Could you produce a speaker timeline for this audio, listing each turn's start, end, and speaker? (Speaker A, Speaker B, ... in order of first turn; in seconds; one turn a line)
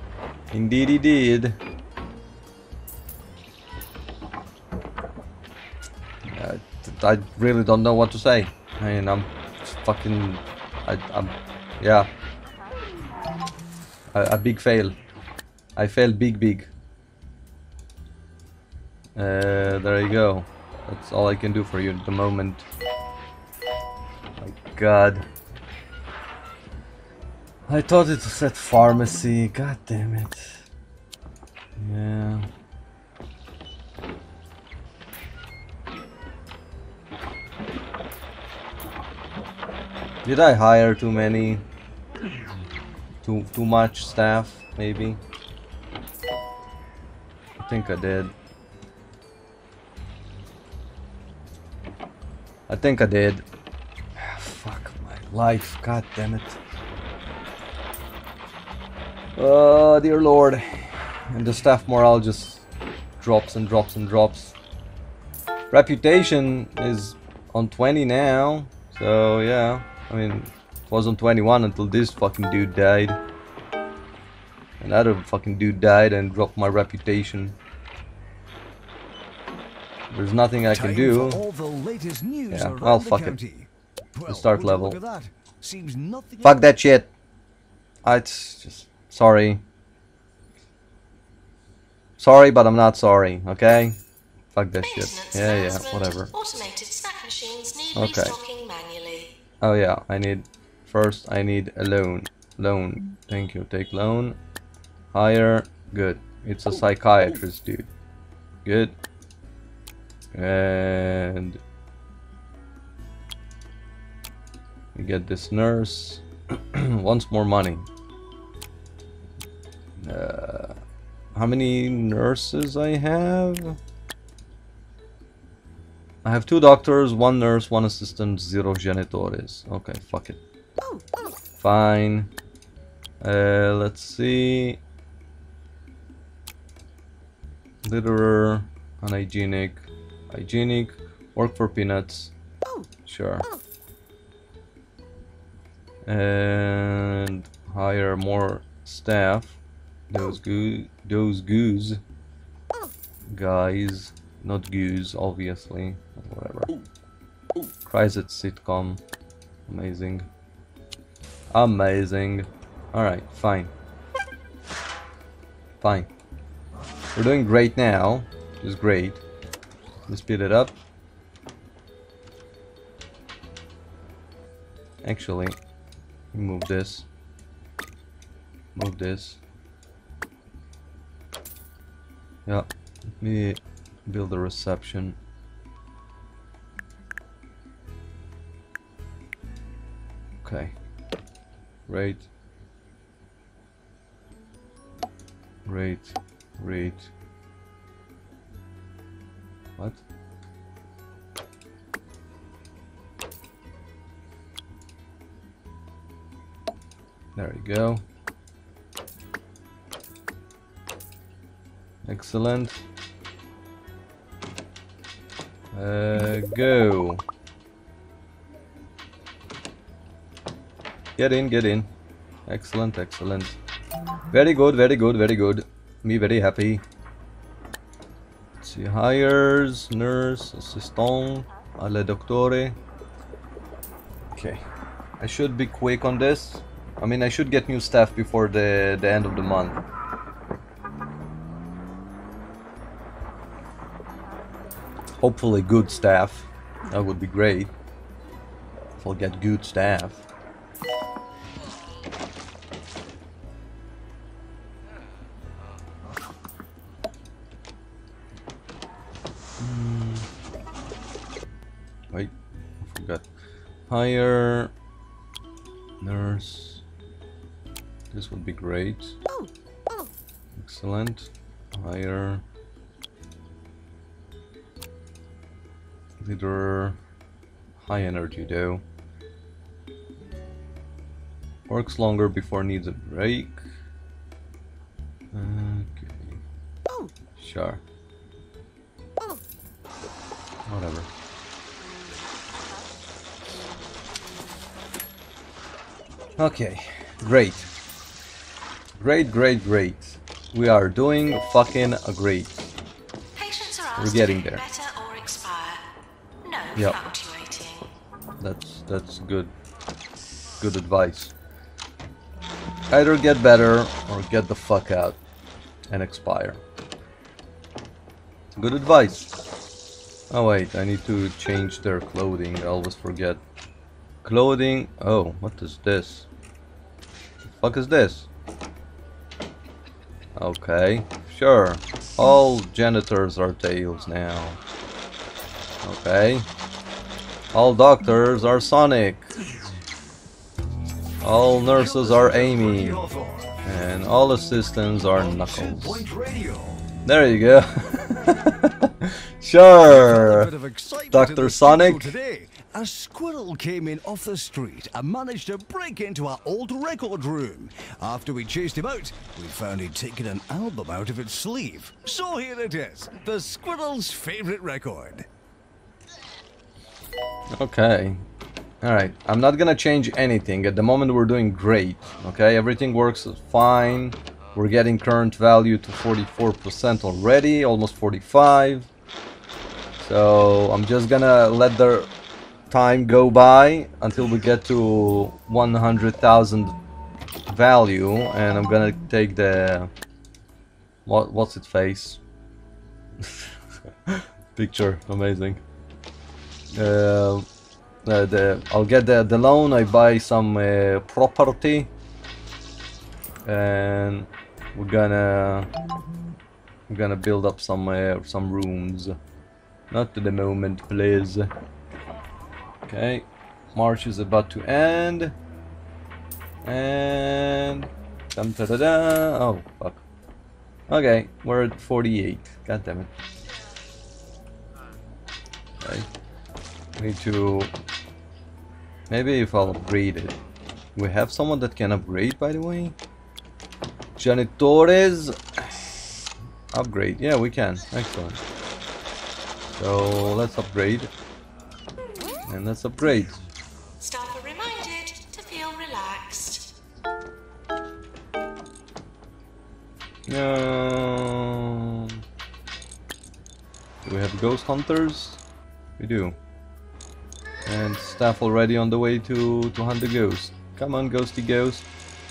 Speaker A: 0.5-1.6
Speaker A: 6.3-12.1
Speaker A: 14.1-15.0
Speaker A: 15.8-16.7
Speaker A: 19.1-22.6
Speaker A: 24.4-25.3
Speaker A: 27.7-30.6
Speaker A: 31.8-32.5
Speaker A: 40.2-41.6
Speaker A: 43.2-45.2
Speaker A: 47.6-48.3
Speaker A: 52.7-53.4
Speaker A: 54.1-56.6
Speaker A: 59.4-62.6
Speaker A: 63.2-64.5
Speaker A: 65.7-73.2
Speaker A: 74.8-77.6
Speaker A: 80.1-81.4
Speaker B: 80.7-86.7
Speaker A: 82.5-83.4
Speaker A: 84.3-85.0
Speaker A: 86.4-87.1
Speaker A: 88.0-89.6
Speaker A: 92.2-94.0
Speaker A: 94.5-96.3
Speaker C: 94.8-99.4
Speaker A: 97.9-98.4
Speaker A: 99.6-104.4
Speaker A: 105.1-107.9
Speaker A: 108.6-108.9
Speaker A: 110.3-111.6
Speaker A: 114.9-117.9
Speaker A: 120.0-120.8
Speaker A: 121.3-123.8
Speaker A: 126.2-130.4
Speaker A: 131.6-132.3
Speaker A: 133.2-134.8
Speaker A: 137.8-142.3
Speaker A: 143.0-143.5
Speaker A: 146.1-152.0
Speaker A: 153.3-156.7
Speaker A: 157.8-159.0
Speaker A: 159.7-160.3
Speaker A: 161.5-163.7
Speaker A: 165.8-166.1
Speaker A: 167.1-169.2
Speaker A: 170.1-170.7
Speaker A: 175.0-175.6
Speaker A: 176.3-177.1
Speaker A: 178.7-179.4
Speaker A: 183.2-185.2
Speaker A: 190.4-190.7
Speaker A: 191.9-192.2
Speaker A: 195.7-197.1
Speaker A: 207.3-208.0
Speaker A: 212.0-212.8
Speaker A: 215.7-217.2
Speaker A: 221.2-221.9
Speaker A: 222.5-223.6
Speaker A: 224.3-226.8
Speaker A: 228.6-232.8
Speaker A: 234.3-234.6
Speaker A: 235.2-239.8
Speaker A: 245.2-247.7
Speaker A: 249.0-250.2
Speaker A: 259.6-260.3
Speaker A: 262.1-263.2
Speaker A: 263.9-264.7
Speaker A: 266.0-266.8
Speaker A: 268.1-269.1
Speaker A: 270.6-272.4
Speaker A: 276.2-277.0
Speaker A: 277.8-278.8
Speaker A: 281.7-283.6
Speaker A: 285.3-286.4
Speaker A: 287.4-287.8
Speaker A: 290.7-291.1
Speaker A: 296.4-297.7
Speaker A: 299.0-302.7
Speaker C: 303.4-305.8
Speaker A: 303.9-304.6
Speaker C: 306.4-307.9
Speaker A: 308.4-309.5
Speaker A: 310.6-311.3
Speaker A: 312.9-315.2
Speaker A: 315.9-316.6
Speaker A: 318.6-319.3
Speaker A: 320.3-323.4
Speaker A: 324.2-326.3
Speaker A: 327.4-328.3
Speaker A: 330.4-334.6
Speaker A: 335.8-336.5
Speaker A: 337.5-339.2
Speaker A: 341.2-343.0
Speaker B: 341.7-343.6
Speaker A: 343.6-346.1
Speaker B: 345.1-346.9
Speaker A: 347.0-350.5
Speaker B: 349.8-365.3
Speaker A: 351.1-352.1
Speaker A: 367.5-368.2
Speaker A: 368.8-378.9
Speaker A: 380.0-382.1
Speaker A: 382.7-386.7
Speaker A: 387.5-389.9
Speaker A: 391.1-392.2
Speaker A: 393.2-393.5
Speaker A: 394.1-395.6
Speaker A: 396.7-397.4
Speaker A: 398.0-401.9
Speaker A: 403.4-405.7
Speaker A: 406.9-409.1
Speaker A: 409.9-411.5
Speaker A: 412.9-415.3
Speaker A: 416.6-420.0
Speaker A: 420.9-423.1
Speaker A: 425.8-426.1
Speaker A: 427.0-427.7
Speaker A: 429.1-430.4
Speaker A: 430.9-432.9
Speaker A: 434.2-435.9
Speaker A: 436.7-438.4
Speaker A: 439.6-441.1
Speaker A: 442.5-443.4
Speaker C: 444.0-446.7
Speaker A: 450.3-452.2
Speaker A: 454.0-455.4
Speaker A: 456.0-456.4
Speaker A: 457.6-461.9